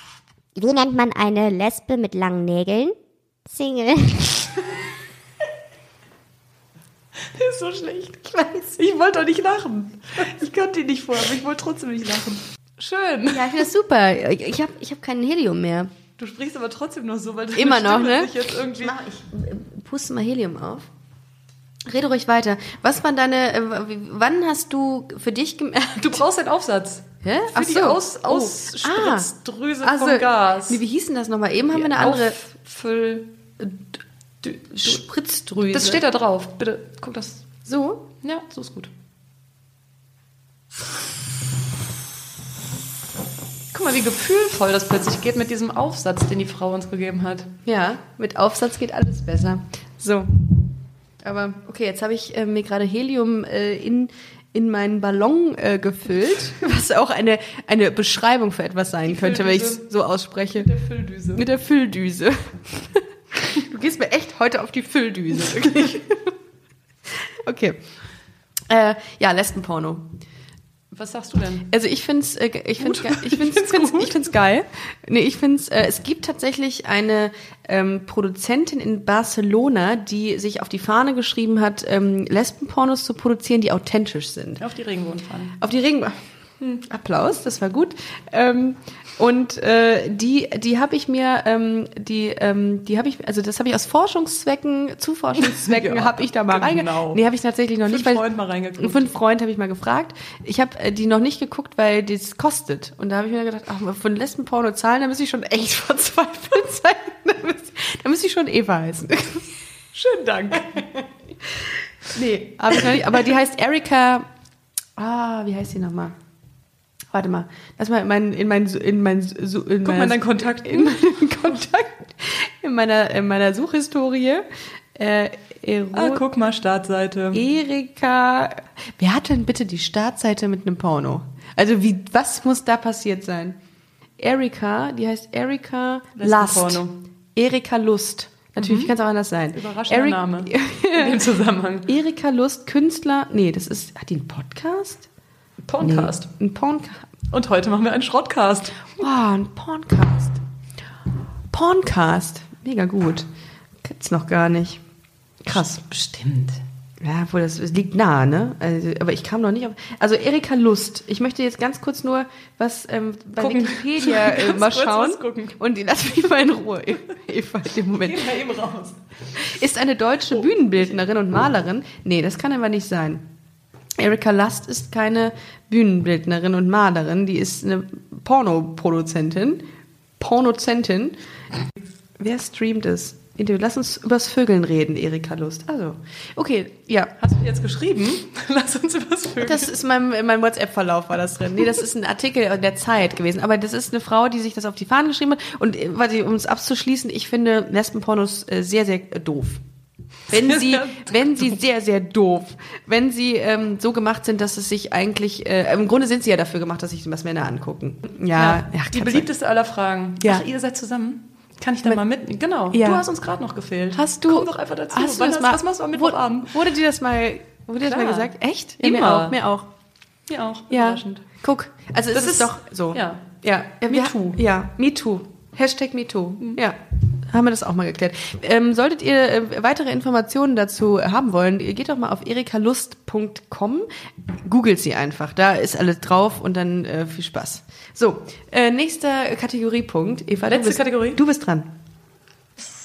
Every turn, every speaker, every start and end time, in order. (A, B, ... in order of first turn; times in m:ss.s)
0:00.6-0:03.0 A
0:03.5-0:04.5 A
0:07.3-0:13.7 B
0:13.3-0:15.9 C
0:16.2-0:19.0 B
0:17.5-0:20.9 C
0:21.8-0:26.2 C
0:26.0-0:30.8 B
0:27.2-0:29.3 C
0:29.8-0:32.4 C
0:31.7-0:33.7 B
0:34.4-0:35.0 B
0:34.8-0:36.0 C
0:35.7-0:37.5 B
0:37.6-0:38.1 C
0:38.2-0:38.9 B
0:43.7-0:47.5 B
0:47.6-0:50.7 C
0:51.2-1:00.7 C
0:59.0-0:59.9 B
1:00.5-1:01.4 B
1:01.3-1:06.3 C
1:07.1-1:07.8 C
1:08.7-1:10.1 C
1:10.9-1:11.7 B
1:11.7-1:24.6 C
1:12.8-1:14.2 B
1:24.6-1:25.6 B
1:25.6-1:38.2 C
1:35.4-1:37.2 B
1:37.8-1:39.1 B
1:38.8-1:49.5 C
1:49.9-1:50.9 B
1:52.1-1:54.3 C
1:55.0-1:56.2 C
1:57.1-2:06.2 C
1:59.8-2:01.0 B
2:05.9-2:07.4 B
2:07.3-2:13.6 C
2:14.2-2:16.8 C
2:16.2-2:17.0 B
2:17.3-2:21.2 C
2:18.6-2:18.9 B
2:19.5-2:21.9 B
2:21.9-2:25.1 C
2:25.6-2:26.3 B
2:25.8-2:27.0 C
2:27.3-2:28.9 B
2:29.0-2:30.4 C
2:31.5-2:33.3 C
2:33.8-2:34.8 C
2:35.4-2:35.8 C
2:35.5-2:36.6 B
2:37.0-2:48.3 C
2:43.4-2:45.6 B
2:47.9-2:49.4 B
2:49.4-2:53.3 C
2:54.0-2:59.6 C
3:00.2-3:01.2 C
3:02.2-3:07.1 C
3:07.2-3:09.7 B
3:09.4-3:19.6 C
3:20.3-3:29.3 C
3:20.3-3:21.4 B
3:28.3-3:36.5 B
3:32.7-3:33.0 C
3:33.9-3:39.7 C
3:37.8-3:39.4 B
3:40.3-3:41.2 B
3:40.7-3:53.9 C
3:42.1-3:43.3 B
3:43.8-3:44.4 B
3:54.4-4:01.7 C
4:00.5-4:01.2 B